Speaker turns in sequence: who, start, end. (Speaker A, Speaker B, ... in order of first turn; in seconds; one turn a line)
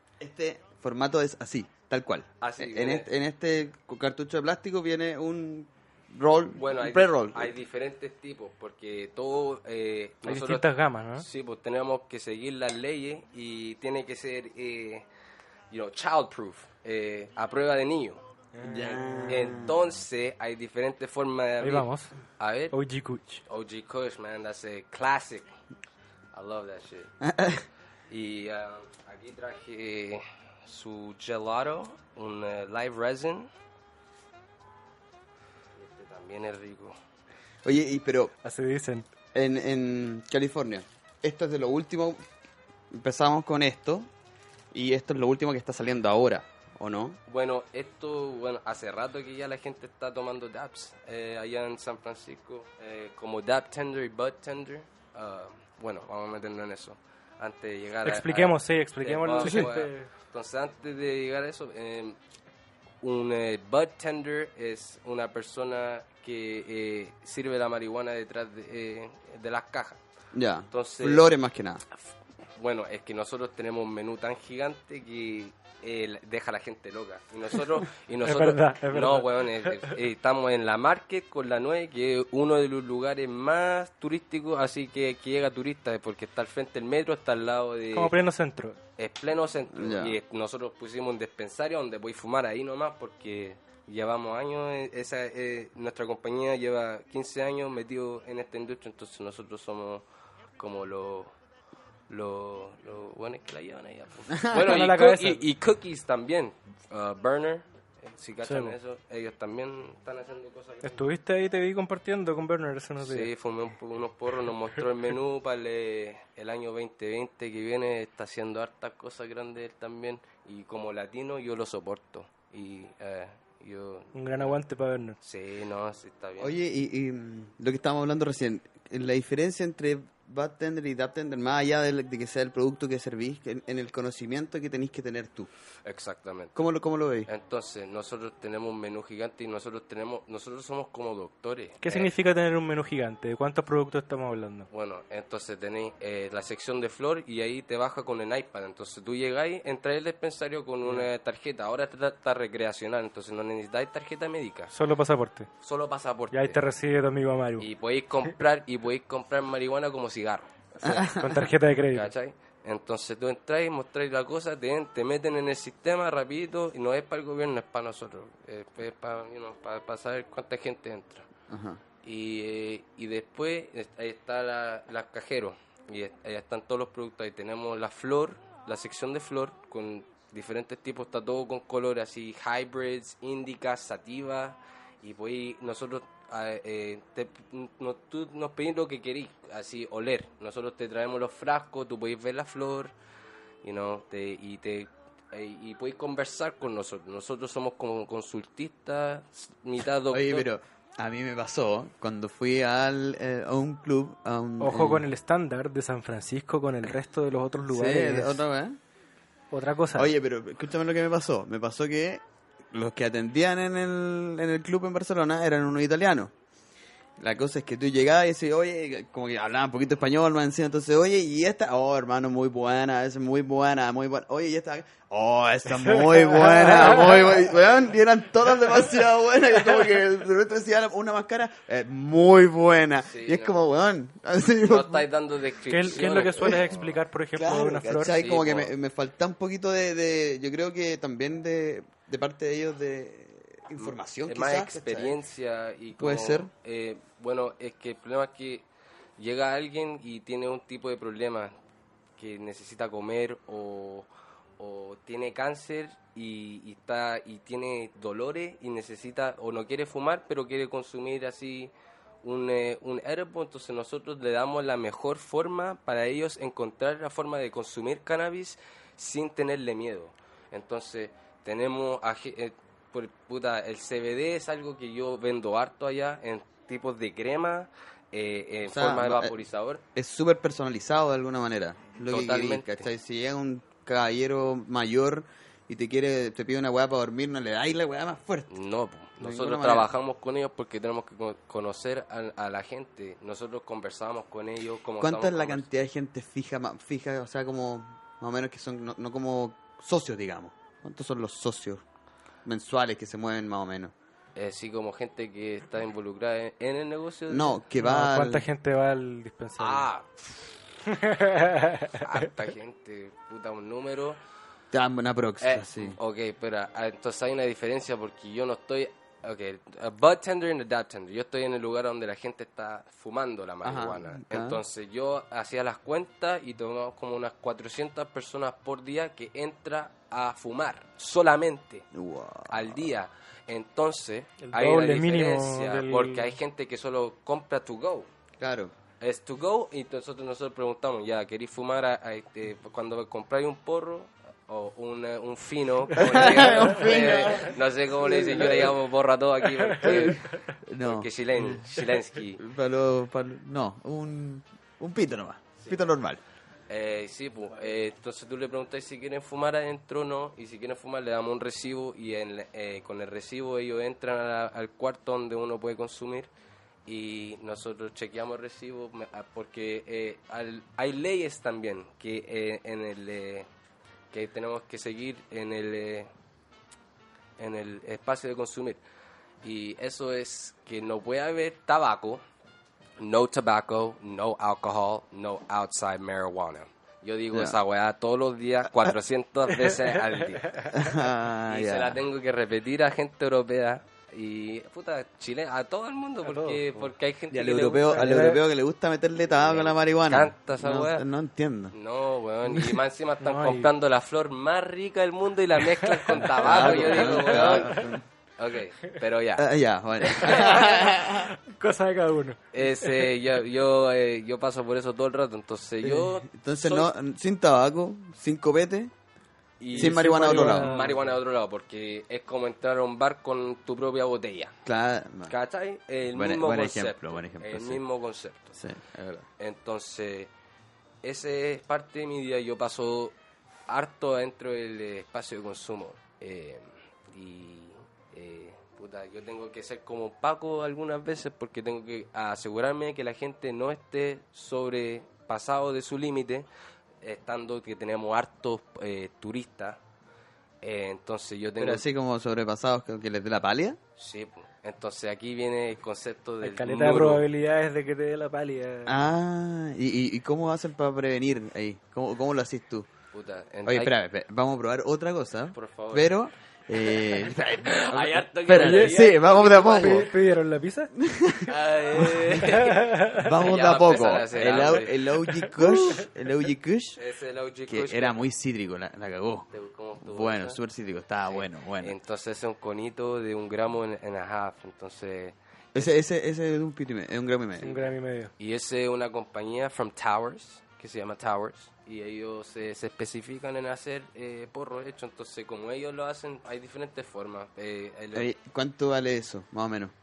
Speaker A: 0.2-7.5
Speaker B: 2.4-3.1
Speaker B: 6.6-15.1
Speaker C: 10.3-11.3
Speaker B: 15.7-18.2
Speaker C: 18.5-19.0
Speaker A: 18.6-19.8
Speaker B: 19.3-22.7
Speaker C: 21.6-22.1
Speaker C: 22.7-23.4
Speaker B: 23.5-25.5
Speaker B: 26.3-27.1
Speaker A: 27.2-27.6
Speaker B: 28.1-33.5
Speaker B: 35.8-37.0
Speaker A: 37.6-38.3
Speaker C: 38.4-39.1
Speaker A: 39.3-42.2
Speaker A: 42.9-44.1
Speaker A: 44.7-47.2
Speaker B: 47.3-62.2
Speaker C: 58.0-60.1
Speaker B: 63.0-70.0
Speaker A: 70.3-71.8
Speaker B: 70.7-71.3
Speaker B: 72.6-88.2
Speaker C: 78.2-79.9
Speaker C: 87.9-88.8
Speaker B: 89.0-100.0
Speaker A: 89.7-90.2
Speaker B: 100.6-101.3
Speaker B: 102.1-111.1
Speaker C: 104.5-105.4
Speaker C: 108.4-108.8
Speaker C: 110.8-113.3
Speaker B: 113.0-124.6
Speaker C: 124.1-125.2
Speaker B: 125.2-126.5
Speaker A: 126.4-135.5
Speaker B: 135.8-136.6
Speaker A: 136.6-137.3
Speaker B: 137.3-142.1
Speaker C: 141.8-144.7
Speaker B: 144.7-154.7
Speaker C: 154.7-155.5
Speaker B: 155.6-156.6
Speaker C: 156.3-157.7
Speaker B: 157.6-160.5
Speaker A: 160.8-161.4
Speaker C: 160.8-162.1
Speaker B: 161.9-171.3
Speaker A: 171.5-171.8
Speaker B: 172.0-192.9
Speaker B: 193.6-200.5
Speaker A: 200.1-205.1
Speaker C: 204.6-208.4
Speaker A: 207.7-208.8
Speaker C: 209.5-210.1
Speaker A: 209.9-216.3
Speaker A: 217.2-235.1
Speaker C: 226.0-227.0
Speaker B: 233.0-233.6
Speaker B: 234.6-237.0
Speaker C: 235.7-238.2
Speaker A: 236.2-236.6
Speaker A: 237.3-245.2
Speaker B: 238.1-238.7
Speaker B: 243.8-248.7
Speaker A: 246.0-246.5
Speaker B: 249.2-251.5
Speaker B: 252.2-254.1
Speaker B: 254.6-261.7
Speaker B: 262.2-279.8
Speaker A: 278.6-279.4
Speaker A: 279.9-288.5
Speaker B: 282.1-282.9
Speaker B: 288.5-295.7
Speaker A: 289.2-289.9
Speaker A: 295.0-301.8
Speaker A: 302.4-303.9
Speaker B: 304.4-307.6
Speaker A: 307.3-308.5
Speaker C: 307.8-309.9
Speaker B: 309.6-310.6
Speaker C: 310.9-312.0
Speaker B: 312.0-314.2
Speaker A: 314.7-316.0
Speaker B: 315.4-331.9
Speaker A: 323.6-324.6
Speaker A: 331.9-332.9
Speaker B: 332.5-338.1
Speaker C: 334.4-336.3
Speaker A: 338.4-338.7
Speaker B: 339.0-352.4
Speaker A: 345.9-348.8
Speaker A: 349.8-351.6
Speaker A: 352.4-356.2
Speaker B: 356.7-366.3
Speaker B: 366.9-373.5
Speaker B: 374.1-376.1
Speaker B: 377.4-378.8
Speaker B: 379.4-382.2
Speaker B: 383.0-390.6
Speaker A: 387.3-387.6
Speaker A: 390.7-392.0
Speaker B: 391.5-398.3
Speaker C: 396.3-396.8
Speaker A: 397.3-401.8
Speaker C: 397.9-398.4
Speaker B: 399.3-401.1
Speaker B: 401.7-409.5
Speaker C: 403.2-403.7
Speaker C: 405.7-407.8
Speaker A: 406.4-408.0
Speaker A: 409.4-411.3
Speaker C: 410.2-413.1
Speaker B: 412.5-416.9
Speaker A: 415.8-418.9
Speaker B: 419.6-424.6
Speaker C: 419.7-421.1
Speaker A: 419.8-420.7
Speaker A: 424.7-425.4
Speaker B: 425.3-428.6
Speaker A: 426.1-427.8
Speaker A: 428.6-429.3
Speaker B: 429.4-430.3
Speaker B: 431.0-433.1
Speaker B: 433.7-446.5
Speaker B: 447.0-449.8
Speaker B: 450.6-451.9
Speaker A: 451.6-453.8
Speaker B: 454.0-457.3
Speaker C: 456.4-458.9
Speaker A: 458.9-462.9
Speaker B: 463.1-463.9
Speaker A: 463.7-470.1
Speaker B: 465.5-466.2
Speaker B: 466.9-470.1
Speaker C: 468.6-469.2
Speaker C: 469.8-470.9
Speaker A: 470.9-477.0
Speaker B: 471.5-475.1
Speaker C: 472.5-473.3
Speaker C: 475.3-476.1
Speaker B: 477.0-478.3
Speaker A: 477.7-479.5
Speaker B: 479.5-480.6
Speaker A: 480.0-482.0
Speaker B: 481.3-485.9
Speaker A: 485.7-487.8
Speaker C: 487.6-488.3
Speaker B: 488.4-498.3
Speaker A: 498.1-499.9